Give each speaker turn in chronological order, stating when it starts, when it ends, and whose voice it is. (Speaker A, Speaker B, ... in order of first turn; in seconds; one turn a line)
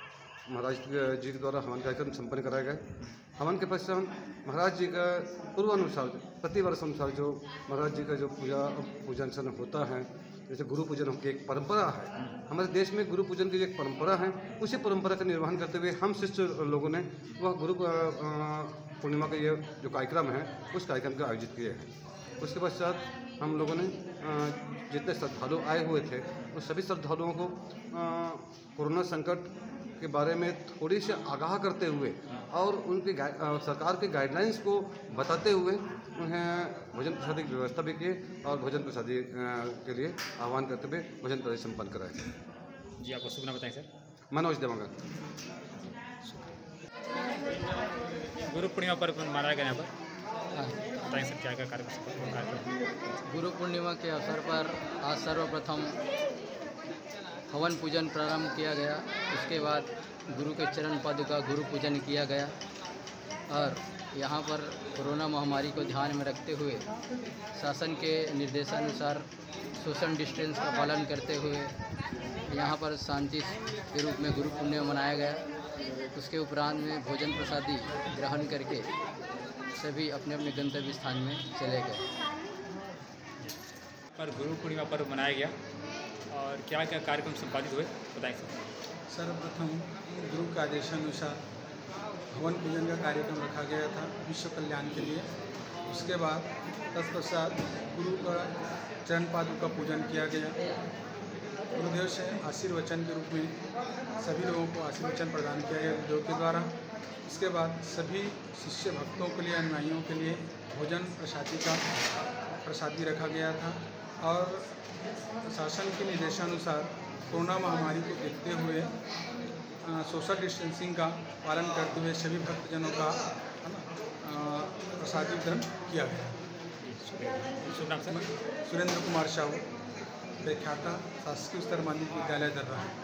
Speaker A: 0.5-21.9
Speaker A: 22.4-42.2
Speaker B: 43.0-43.9
Speaker A: 44.3-44.9
Speaker B: 48.4-49.9
Speaker B: 51.0-53.2
Speaker C: 53.3-56.0
Speaker C: 57.5-62.5
Speaker C: 63.5-66.8
Speaker C: 67.5-69.3
Speaker C: 69.8-71.7
Speaker C: 72.5-78.9
Speaker C: 79.7-82.0
Speaker B: 84.1-85.5
Speaker B: 86.3-88.6
Speaker D: 89.1-91.4
Speaker D: 92.3-95.3
Speaker D: 95.9-100.7
Speaker D: 101.7-103.6
Speaker D: 104.2-111.9
Speaker D: 112.6-114.7
Speaker D: 115.4-118.9
Speaker D: 119.8-126.4
Speaker B: 126.8-128.2
Speaker D: 128.1-129.7
Speaker D: 130.4-132.9